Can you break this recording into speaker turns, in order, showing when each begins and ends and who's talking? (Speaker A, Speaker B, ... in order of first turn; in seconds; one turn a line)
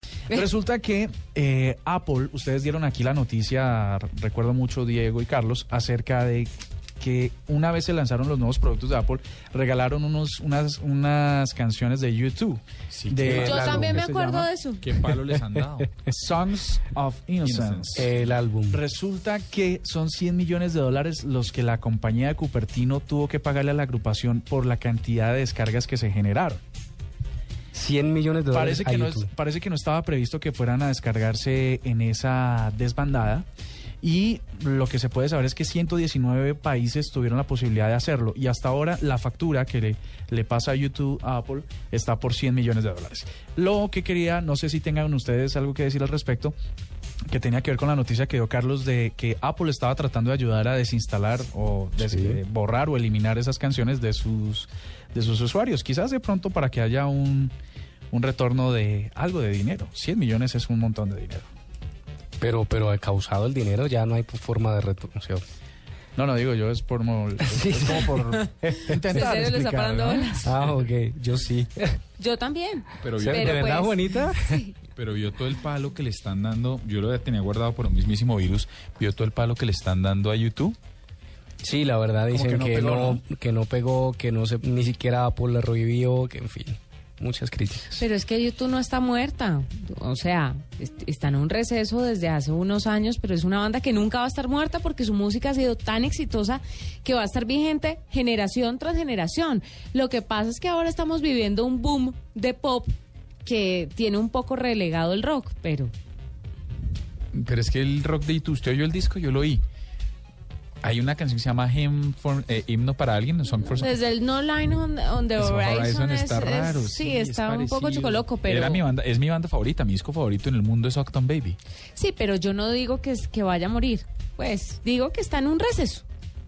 Speaker A: 0.3-14.5
Speaker B: 12.9-13.8
Speaker C: 13.2-14.1
Speaker D: 13.4-14.8
Speaker B: 14.8-16.0
Speaker A: 16.1-18.1
Speaker B: 17.4-18.3
Speaker C: 17.9-18.8
Speaker A: 18.7-26.6
Speaker C: 27.7-29.3
Speaker A: 28.5-33.5
Speaker A: 34.0-46.5
Speaker A: 47.3-57.5
Speaker C: 52.0-52.4
Speaker A: 58.1-61.5
Speaker C: 62.4-65.4
Speaker A: 66.2-70.4
Speaker C: 67.4-69.3
Speaker D: 69.2-70.5
Speaker C: 70.4-72.0
Speaker D: 72.2-74.7
Speaker B: 73.0-73.9
Speaker C: 73.2-74.6
Speaker B: 74.9-80.8
Speaker C: 81.6-88.0
Speaker A: 82.3-83.2
Speaker D: 88.0-102.9
Speaker D: 103.4-105.9
Speaker B: 107.3-109.6
Speaker B: 110.8-114.0
Speaker D: 113.8-118.8
Speaker B: 115.4-121.6
Speaker D: 122.0-126.0